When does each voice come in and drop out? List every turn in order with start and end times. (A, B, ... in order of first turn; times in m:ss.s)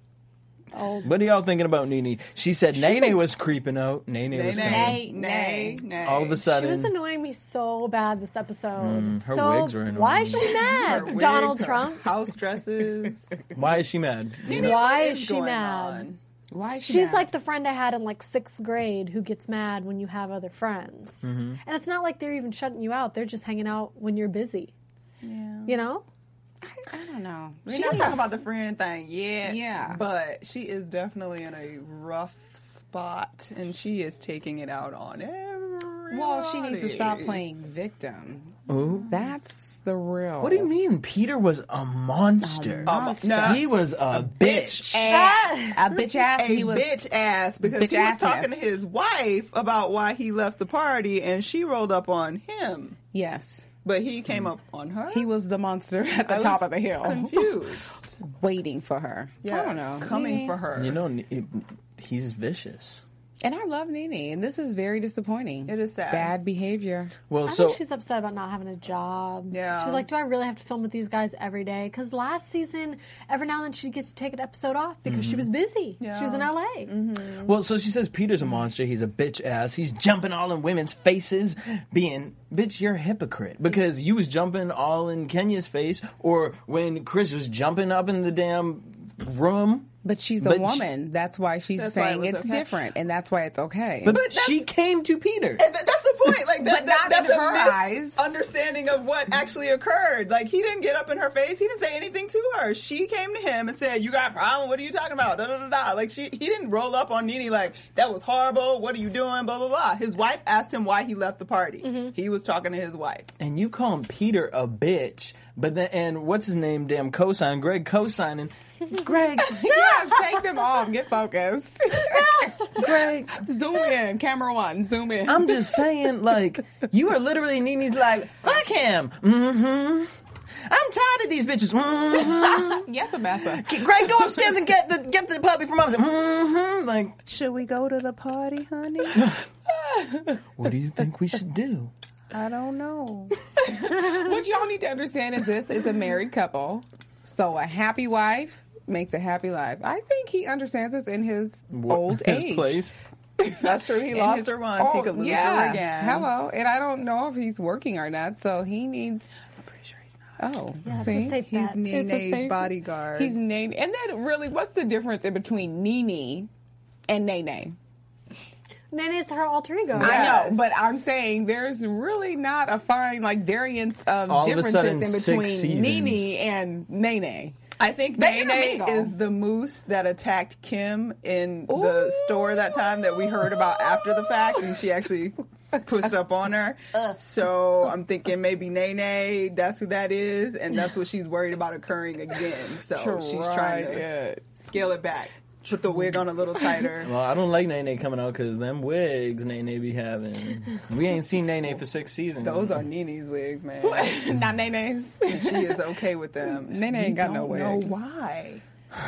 0:01.0-0:05.0 A
0:04.3-0:06.4 B
0:04.6-0:05.9 C
0:06.0-0:06.9 A
0:06.4-0:12.0 D
0:08.8-0:10.8 A
0:10.7-0:13.4 B
0:13.5-0:14.8 A
0:14.4-0:16.2 B
0:14.4-0:16.1 D
0:16.5-0:17.3 C
0:16.8-0:24.7 D
0:21.2-0:21.6 A
0:25.2-0:25.8 B
0:25.6-0:26.0 D
0:26.6-0:28.4 C
0:27.6-0:37.4 B
0:29.4-0:30.0 C
0:36.1-0:40.7 C
0:38.7-0:39.1 A
0:40.4-0:45.1 A
0:42.4-0:43.6 C
0:42.9-0:53.0 B
0:44.4-0:47.0 C
0:45.0-0:46.0 D
0:47.6-0:48.7 C
0:53.1-0:53.7 C
0:53.8-0:55.3 B
0:55.1-0:57.5 C
0:56.3-0:58.1 B
0:58.2-1:00.6 C
0:59.4-1:01.0 B
1:00.7-1:03.0 A
1:03.4-1:07.1 C
1:05.7-1:06.3 B
1:07.3-1:07.8 A
1:07.4-1:16.9 D
1:09.5-1:10.0 B
1:15.0-1:15.5 A
1:16.0-1:17.5 B
1:17.4-1:30.8 A
1:30.0-1:34.2 C
1:31.8-1:32.7 B
1:34.0-1:35.7 A
1:34.1-1:34.6 B
1:35.6-1:53.3 B
1:36.6-1:38.3 C
1:51.8-1:52.1 D
1:53.4-1:59.8 A
1:59.4-2:05.7 C
2:02.7-2:03.4 A
2:05.2-2:10.1 A
2:10.6-2:12.9 A
2:12.4-2:13.8 C
2:13.4-2:17.2 A
2:17.2-2:19.3 B
2:19.1-2:19.4 A
2:20.2-2:21.9 A
2:22.3-2:23.3 B
2:23.6-2:32.8 C
2:31.7-2:33.0 A
2:33.4-2:39.4 C
2:33.6-2:36.3 B
2:40.4-2:46.5 C
2:40.8-2:41.8 D
2:41.1-2:43.4 B
2:47.1-2:47.7 C
2:48.9-2:50.5 D
2:49.9-2:51.0 B
2:50.0-2:57.6 C
2:54.3-2:56.3 A
2:57.8-3:14.1 B
2:58.2-2:59.1 C
3:01.7-3:04.3 C
3:12.9-3:14.4 C
3:14.6-3:17.1 B
3:17.0-3:22.8 A
3:22.4-3:24.3 B
3:23.8-3:25.9 C
3:25.3-3:28.6 B
3:26.4-3:27.9 C